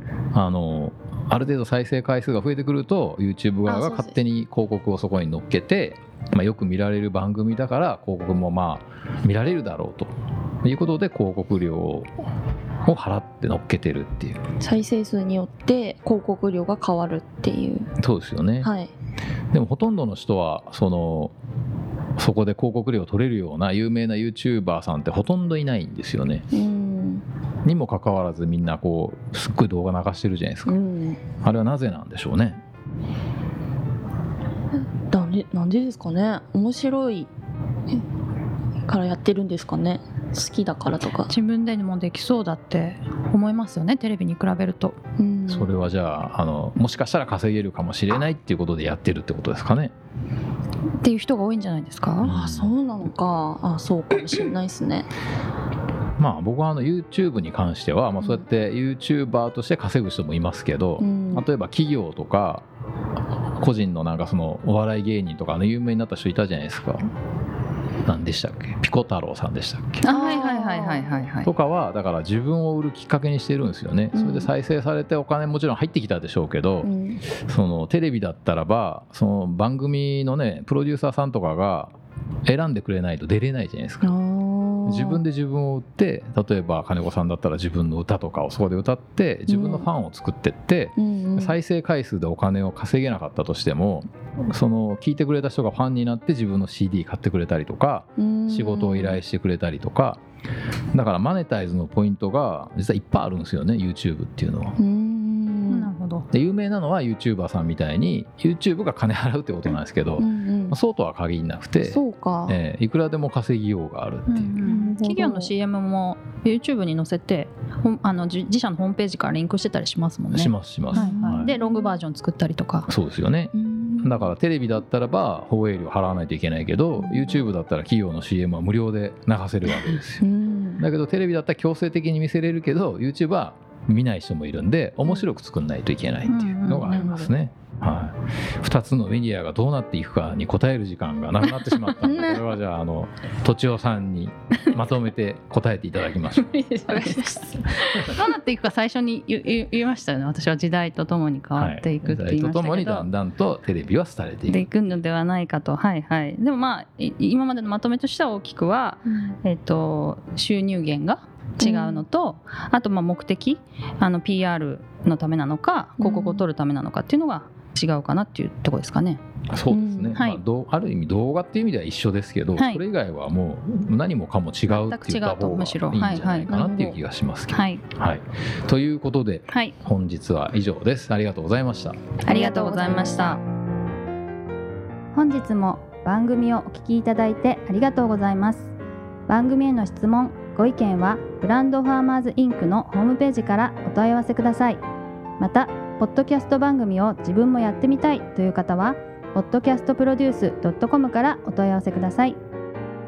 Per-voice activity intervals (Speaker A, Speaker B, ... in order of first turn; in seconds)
Speaker A: 0.3-12.1, 12.8-14.4, 18.0-18.7, 19.5-21.3, 22.2-26.5, 27.6-30.8, 31.4-32.6, 45.5-49.9, 52.2-52.7, 56.2-62.6, 63.6-67.1, 68.0-70.1, 71.4-82.0, 82.5-84.1, 84.9-100.2, 100.9-104.8, 106.3-114.6, 120.3-121.5, 122.9-130.3, 130.8-146.6, 151.6-154.7, 169.5-182.0
Speaker B: 3.7-4.2, 14.6-17.9, 18.6-18.9, 26.5-27.2, 30.7-31.2, 35.1-37.3, 38.9-41.3, 45.2-45.7, 52.2-55.1, 61.0-61.5, 70.0-71.2, 74.1-74.5, 76.8-77.2, 84.0-85.2, 89.5-89.9, 91.0-91.6, 98.2-99.2, 104.8-105.9, 110.2-110.8, 111.8-112.6, 114.6-115.5, 120.9-122.0, 123.5-124.3, 127.0-127.4, 130.2-130.8, 136.7-137.3, 142.0-142.4, 146.9-147.5, 161.6-162.1, 166.0-166.5, 169.7-170.2, 176.5-177.0, 182.2-183.4
Speaker C: 41.3-45.0, 51.0-52.3, 70.0-71.5, 105.7-106.3, 114.3-122.9, 136.3-137.2, 146.3-153.1, 154.5-169.2, 170.1-170.4, 172.6-172.8, 174.7-176.5, 177.5-177.8, 182.3-183.4, 185.6-186.7, 188.2-188.6, 192.4-192.8
Speaker D: 185.1-188.7, 189.3-194.8, 195.4-202.4